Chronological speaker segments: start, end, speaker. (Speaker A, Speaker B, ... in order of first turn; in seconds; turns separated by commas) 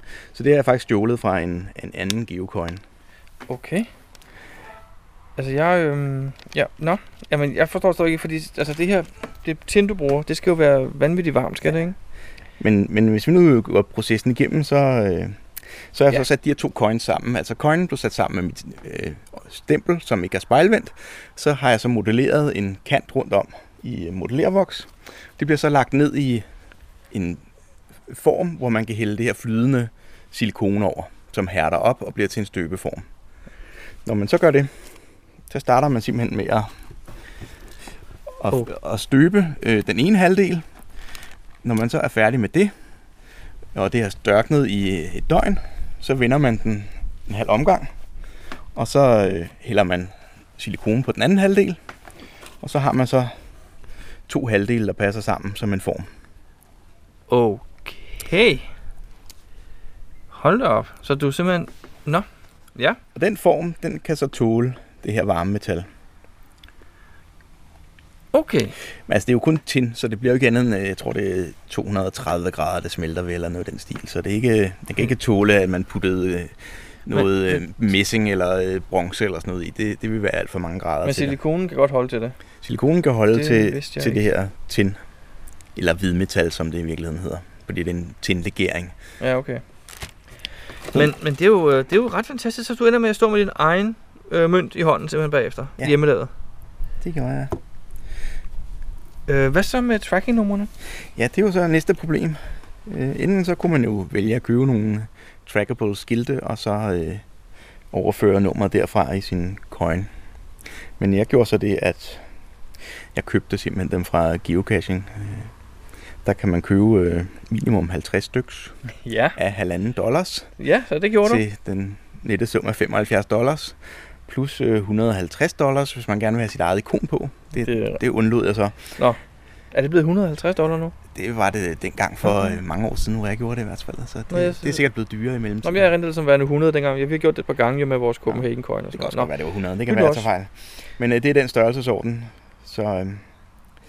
Speaker A: 0.3-2.8, Speaker B: 3.5-3.9, Speaker B: 5.4-12.0, Speaker A: 12.6-26.5, Speaker A: 27.1-27.4, Speaker A: 28.1-33.1, Speaker A: 34.0-34.7, Speaker A: 35.5-36.7, Speaker A: 38.4-40.6, Speaker A: 41.6-42.7, Speaker A: 43.8-47.9, Speaker A: 48.8-51.8, Speaker A: 52.6-53.3, Speaker A: 54.3-56.1, Speaker B: 57.3-58.7, Speaker B: 60.3-63.0, Speaker A: 63.1-65.9, Speaker B: 68.3-68.8, Speaker A: 69.1-81.4, Speaker B: 77.1-77.6, Speaker B: 81.0-82.4, Speaker A: 82.6-85.0, Speaker B: 83.3-84.2, Speaker A: 85.8-88.9, Speaker B: 89.2-89.6, Speaker B: 90.9-96.3, Speaker A: 97.0-97.5, Speaker B: 99.3-100.7, Speaker A: 101.2-107.2, Speaker A: 107.9-110.1, Speaker A: 111.0-112.2, Speaker A: 113.1-115.5, Speaker A: 116.2-118.7, Speaker B: 119.0-119.4, Speaker A: 119.4-120.5, Speaker B: 120.6-121.4, Speaker A: 121.2-128.9, Speaker B: 127.6-128.0, Speaker B: 129.7-130.9, Speaker A: 131.1-135.9, Speaker B: 134.3-134.8, Speaker B: 135.6-139.3, Speaker A: 138.3-143.2, Speaker B: 139.9-140.3